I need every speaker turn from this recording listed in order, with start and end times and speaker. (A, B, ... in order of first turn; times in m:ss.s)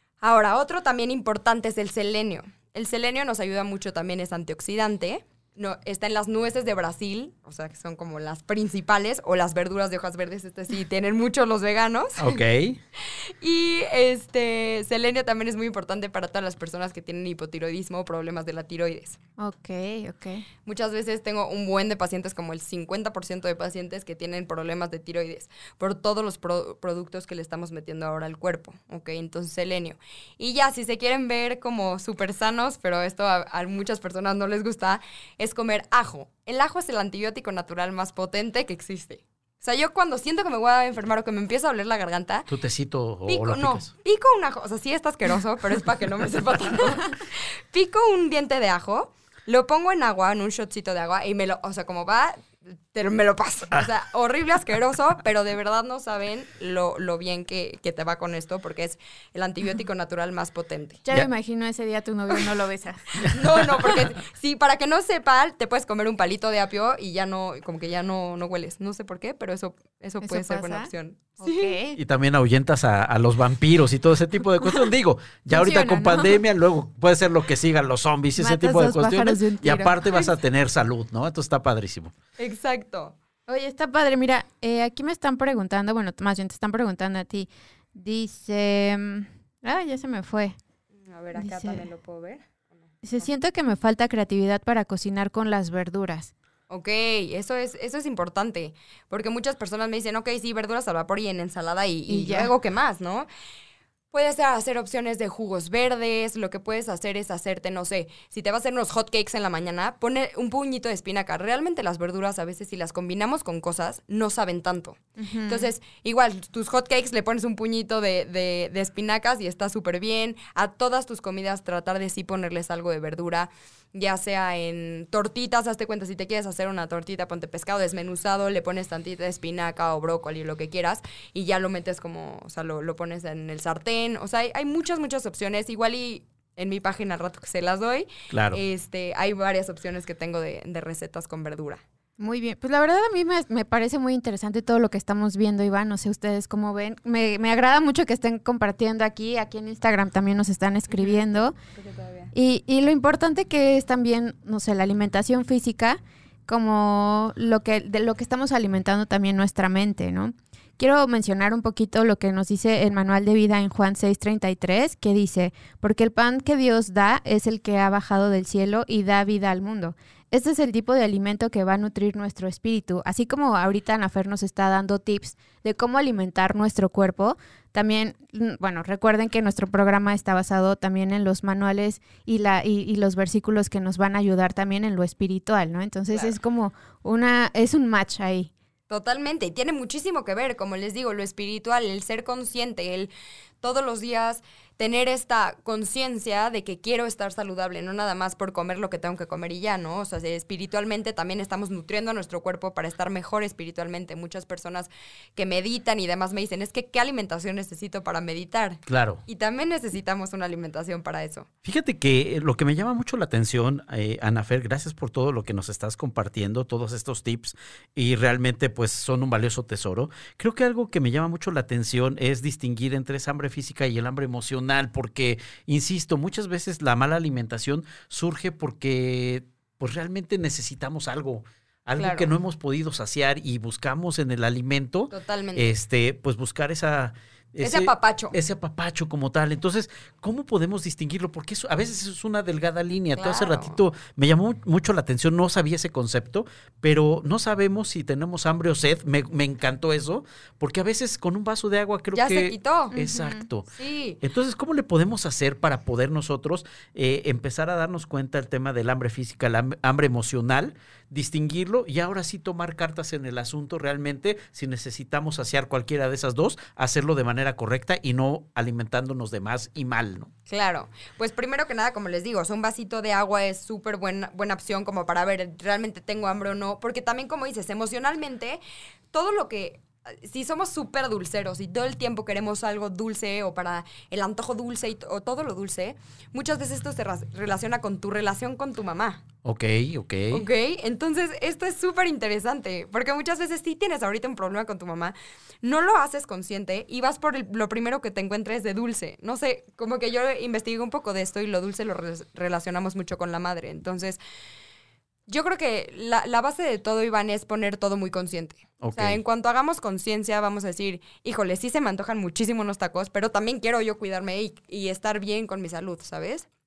0:00.2-0:12.4 A
0:12.2-0:12.8 B
0:13.0-0:19.2 A
0:19.4-0:20.5 C
0:20.7-0:42.5 A
0:42.5-0:43.9 B
0:43.3-1:01.0 A
1:01.0-1:03.4 C
1:03.2-1:11.8 A
1:10.2-1:10.9 C
1:11.4-1:12.0 C
1:12.0-1:22.1 B
1:15.5-1:16.4 C
1:18.4-1:20.2 C
1:22.4-1:23.2 A
1:23.5-1:30.6 C
1:31.1-1:33.3 A
1:31.4-1:31.8 C
1:33.0-1:36.3 C
1:36.7-1:43.3 A
1:42.1-1:42.5 C
1:44.1-2:21.8 A
1:55.2-1:55.7 C
2:18.3-2:18.6 B
2:22.2-2:31.6 C
2:30.9-2:32.3 A
2:32.3-3:08.5 C
3:06.1-3:06.4 A
3:08.9-3:13.1 A
3:13.6-3:31.5 A
3:28.9-3:29.2 B
3:31.6-4:13.7 B
3:52.0-3:52.3 A
3:55.1-3:55.7 A
3:57.6-3:58.4 A
4:03.2-4:03.8 A
4:12.1-4:13.0 A
4:12.9-4:13.4 C
4:13.8-4:14.2 A
4:14.2-4:30.3 B
4:30.5-4:38.6 A
4:39.1-4:49.2 A
4:49.4-4:50.4 B
4:50.3-5:04.2 A
5:05.3-5:16.5 A
5:08.8-5:09.2 B